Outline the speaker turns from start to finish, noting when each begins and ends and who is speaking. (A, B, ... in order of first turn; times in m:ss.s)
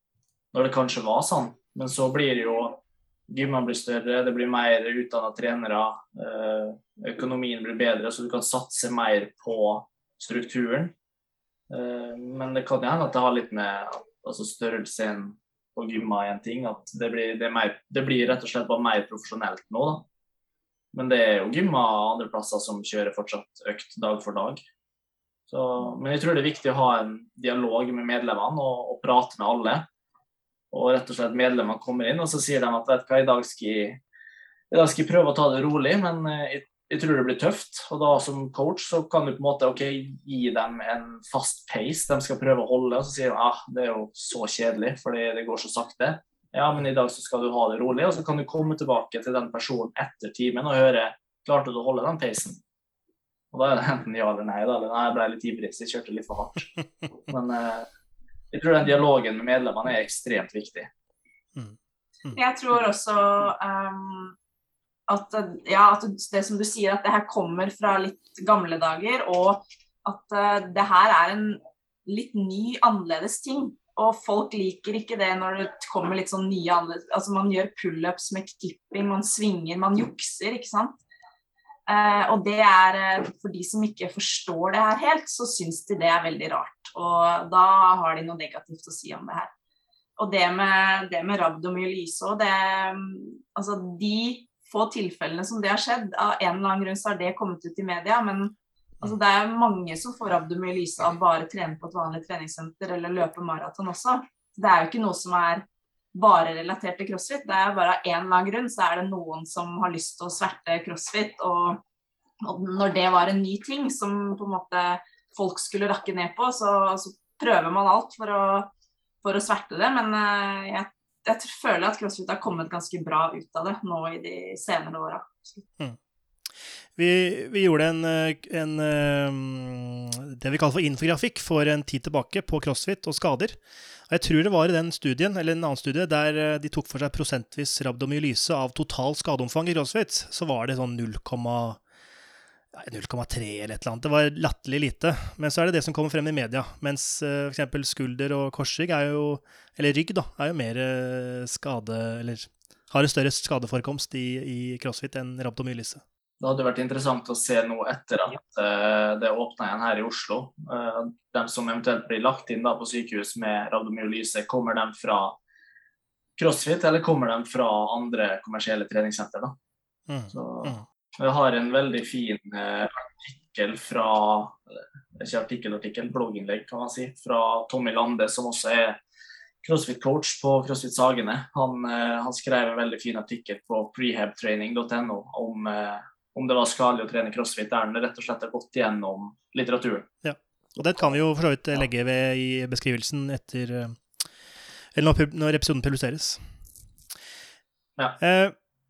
0:00.5-0:10.9 A
0:11.7-0:20.0 A
0:20.9-0:24.6 A
0:25.5-0:29.9 A
0:30.7-0:34.0 A
0:34.7-0:52.6 A
0:53.5-0:56.7 A
0:57.3-0:57.9 A
0:58.5-1:00.9 A
1:01.6-1:02.4 B
1:02.3-1:04.3 C
1:05.1-1:21.0 C
1:21.9-1:29.5 C
1:30.2-1:51.8 C
1:52.4-1:58.7 C
1:59.2-2:05.7 C
2:07.0-2:21.8 B
2:22.7-2:36.0 B
2:36.4-2:45.4 A
2:46.4-2:49.6 A
2:50.1-2:50.8 B
2:50.3-2:59.0 A
2:59.6-3:10.1 A
3:10.2-3:14.1 B
3:14.9-3:16.4 B
3:18.2-3:18.5 B